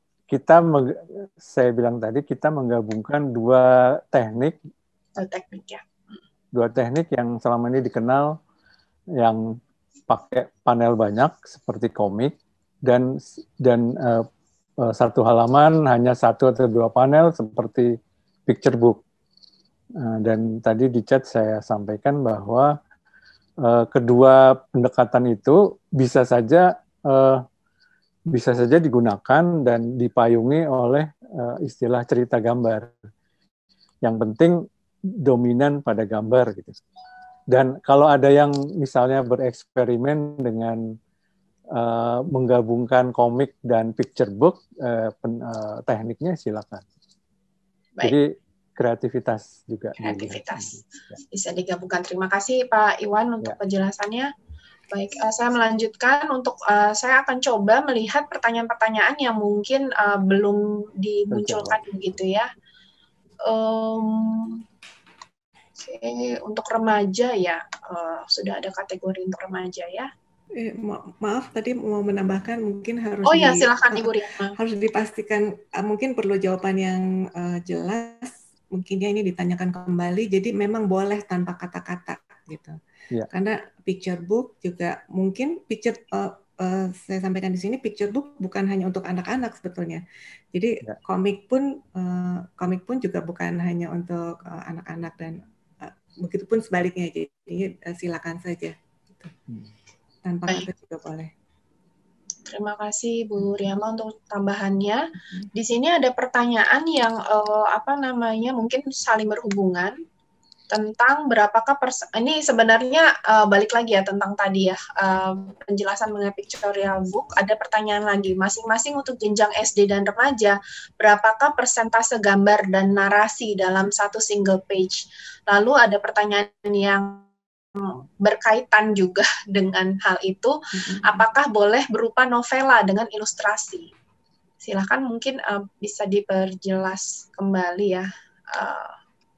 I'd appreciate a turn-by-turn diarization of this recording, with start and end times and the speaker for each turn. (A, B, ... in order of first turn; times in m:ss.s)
0:00.3-0:04.6 A
0:05.2-0:05.8 B
0:06.5-0:08.3 A
0:10.1-0:12.3 A
0:13.6-0:14.3 A
0:14.8-0:17.9 A
0:18.5-0:19.0 A
0:20.0-0:22.7 A
0:23.6-0:27.4 A
0:28.3-0:32.9 A
0:34.0-0:34.6 A
0:35.2-0:36.8 A
0:37.5-0:40.8 A
0:41.7-0:46.8 A
0:48.0-0:48.3 A
0:48.8-0:51.2 A
0:50.0-0:50.7 B
0:51.3-0:54.3 B
0:54.9-1:02.5 B
1:01.3-1:01.8 A
1:03.5-1:04.6 B
1:05.8-1:10.1 B
1:10.6-1:22.7 C
1:13.2-1:14.5 B
1:23.3-1:39.3 C
1:40.2-1:41.3 C
1:42.5-1:45.0 B
1:45.5-1:49.9 B
1:50.7-2:07.2 B
2:07.8-2:13.9 B
2:10.8-2:11.2 C
2:14.6-2:18.9 B